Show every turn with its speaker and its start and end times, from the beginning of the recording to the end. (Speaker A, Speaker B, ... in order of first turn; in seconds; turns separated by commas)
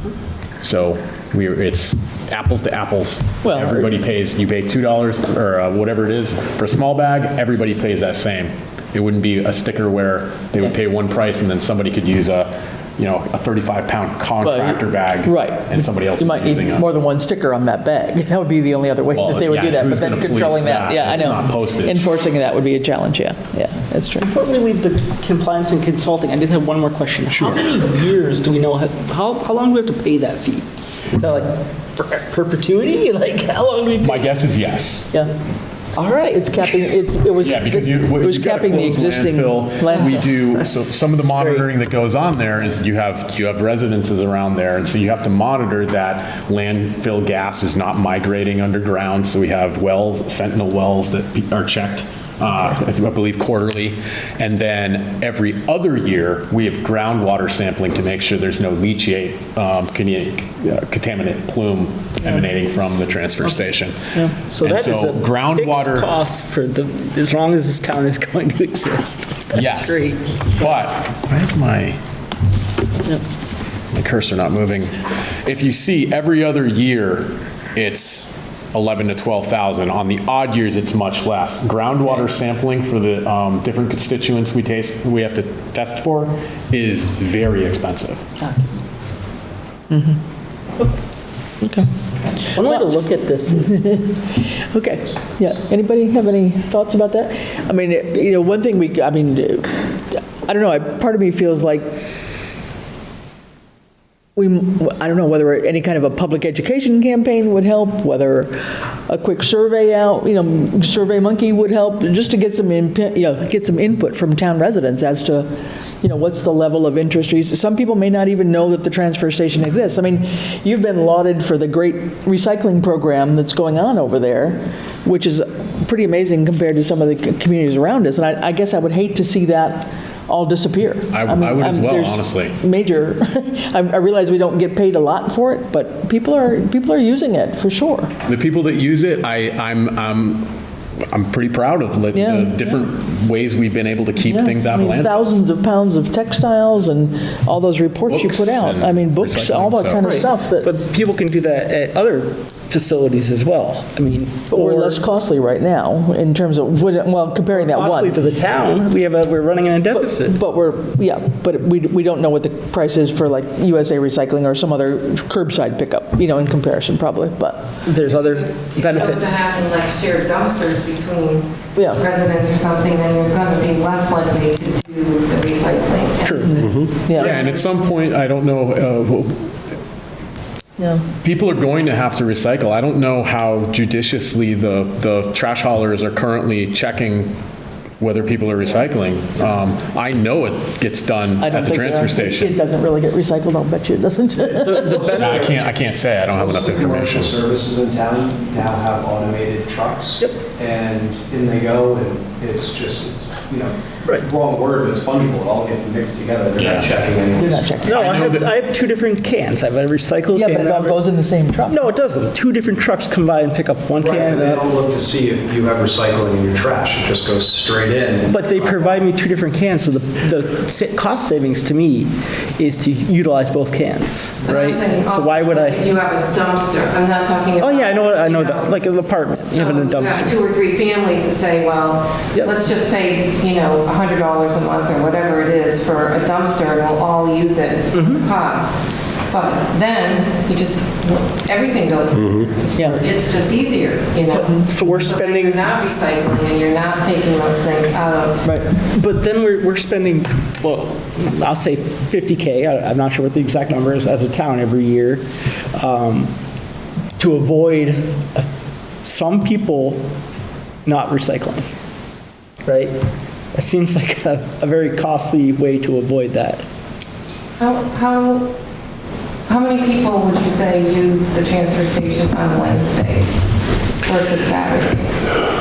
Speaker A: 0.6-16.9, Speaker B: 3.4-3.9, Speaker B: 14.4-24.3, Speaker A: 19.1-22.1, Speaker C: 24.2-34.3, Speaker A: 27.3-27.7, Speaker A: 34.0-35.1, Speaker C: 36.0-36.7, Speaker B: 36.3-40.2, Speaker A: 37.4-66.2, Speaker C: 41.4-41.6, Speaker C: 64.4-70.4, Speaker A: 69.5-72.0, Speaker A: 73.9-88.3, Speaker B: 89.9-90.2, Speaker B: 91.6-91.9, Speaker C: 92.5-93.8, Speaker B: 92.6-93.0, Speaker B: 93.5-102.0, Speaker B: 104.4-115.5, Speaker B: 116.0-138.1, Speaker A: 131.1-132.6, Speaker A: 138.3-140.6, Speaker A: 141.1-145.4, Speaker B: 142.1-142.7, Speaker B: 144.2-150.7, Speaker A: 148.1-150.1, Speaker C: 150.0-154.9, Speaker B: 154.5-158.2, Speaker C: 157.6-160.4, Speaker B: 159.9-167.7, Speaker C: 167.8-169.4, Speaker D: 168.1-177.6, Speaker B: 171.8-172.0, Speaker C: 176.2-176.6, Speaker B: 176.4-177.4, Speaker A: 177.2-179.5, Speaker A: 181.2-187.4, Speaker A: 188.0-192.6, Speaker B: 191.4-195.1, Speaker C: 194.6-195.5, Speaker A: 195.0-197.4, Speaker E: 196.4-207.8, Speaker A: 206.6-206.9, Speaker B: 207.4-208.2, Speaker A: 207.8-208.5, Speaker C: 207.9-211.0, Speaker B: 210.3-211.8, Speaker C: 211.7-214.5, Speaker E: 214.0-219.0, Speaker C: 218.3-225.9, Speaker D: 224.4-228.8, Speaker C: 227.6-230.4, Speaker D: 229.5-248.5, Speaker C: 237.9-238.2, Speaker B: 242.8-243.0, Speaker C: 244.4-245.6, Speaker B: 248.4-248.7, Speaker C: 248.9-256.3, Speaker C: 257.2-258.5, Speaker C: 259.0-260.1, Speaker C: 260.9-261.7, Speaker C: 262.6-263.0, Speaker C: 263.5-266.7, Speaker D: 267.6-268.5, Speaker D: 269.5-273.5, Speaker D: 274.0-275.3